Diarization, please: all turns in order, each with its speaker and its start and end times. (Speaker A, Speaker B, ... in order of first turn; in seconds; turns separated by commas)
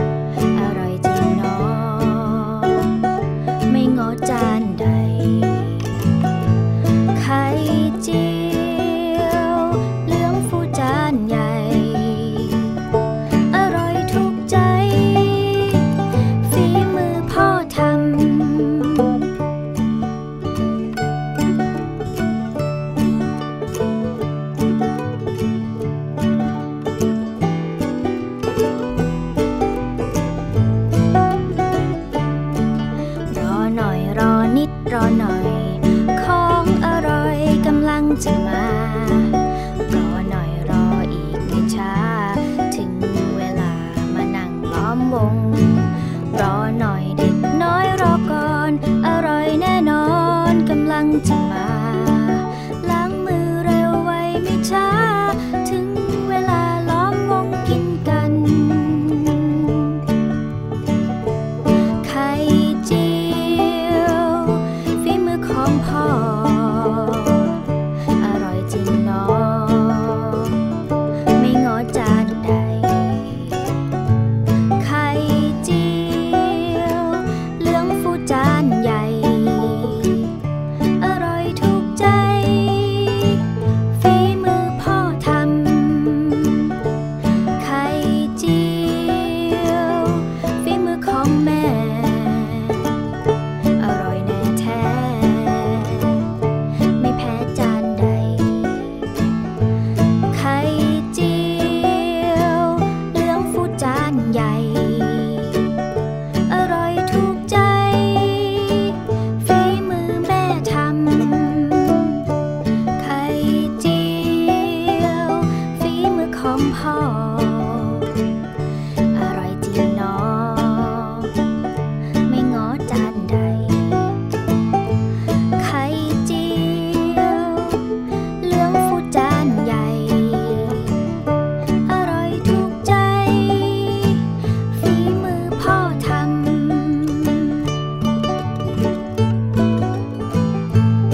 Speaker A: 0.5-2.9, Speaker A: 3.7-5.8, Speaker A: 7.1-12.7, Speaker A: 13.5-15.8, Speaker A: 16.4-19.1, Speaker A: 33.3-60.0, Speaker A: 62.0-67.6, Speaker A: 68.2-70.6, Speaker A: 71.4-73.6, Speaker A: 74.8-80.3, Speaker A: 81.0-86.7, Speaker A: 87.6-92.9, Speaker A: 93.8-96.2, Speaker A: 97.0-99.0, Speaker A: 100.3-105.7, Speaker A: 106.5-112.2, Speaker A: 113.0-118.1, Speaker A: 119.1-121.3, Speaker A: 122.2-124.2, Speaker A: 125.6-127.8, Speaker A: 128.4-131.0, Speaker A: 131.8-137.6